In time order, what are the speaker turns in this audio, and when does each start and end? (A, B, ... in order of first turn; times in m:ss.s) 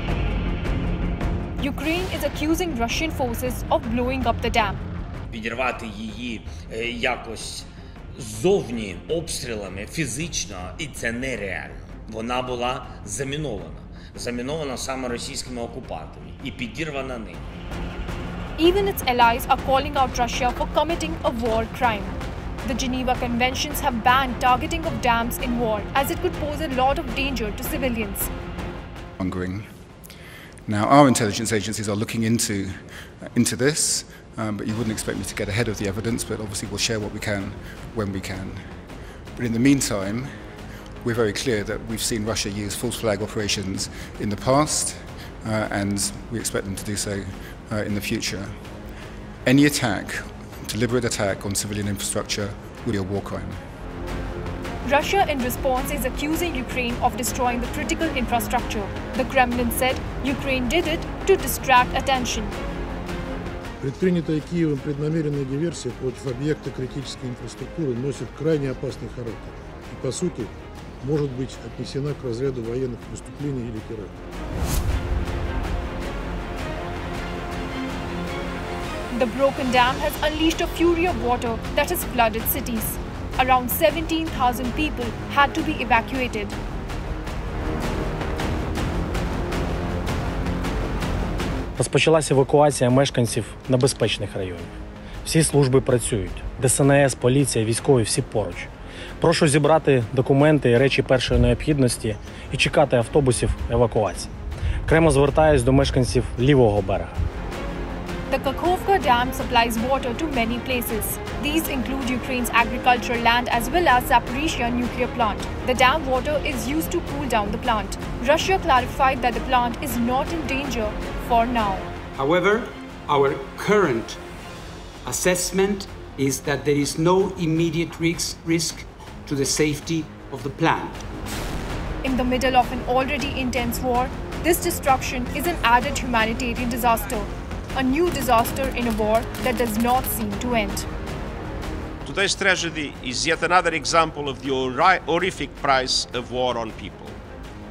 0:01.6-0:04.8 A
0:05.3-0:17.4 B
0:18.6-0:28.3 A
0:29.2-0:29.7 C
0:30.6-0:38.6 C
0:39.4-0:40.3 C
0:41.0-0:48.5 C
0:49.4-0:53.6 C
0:54.8-1:02.5 A
1:03.8-1:14.1 D
1:19.1-1:26.5 A
1:31.8-1:44.3 E
1:44.8-1:47.2 E
1:48.3-2:01.9 A
2:02.1-2:04.2 F
2:05.0-2:11.0 F
2:12.0-2:20.9 A
2:22.0-2:27.2 G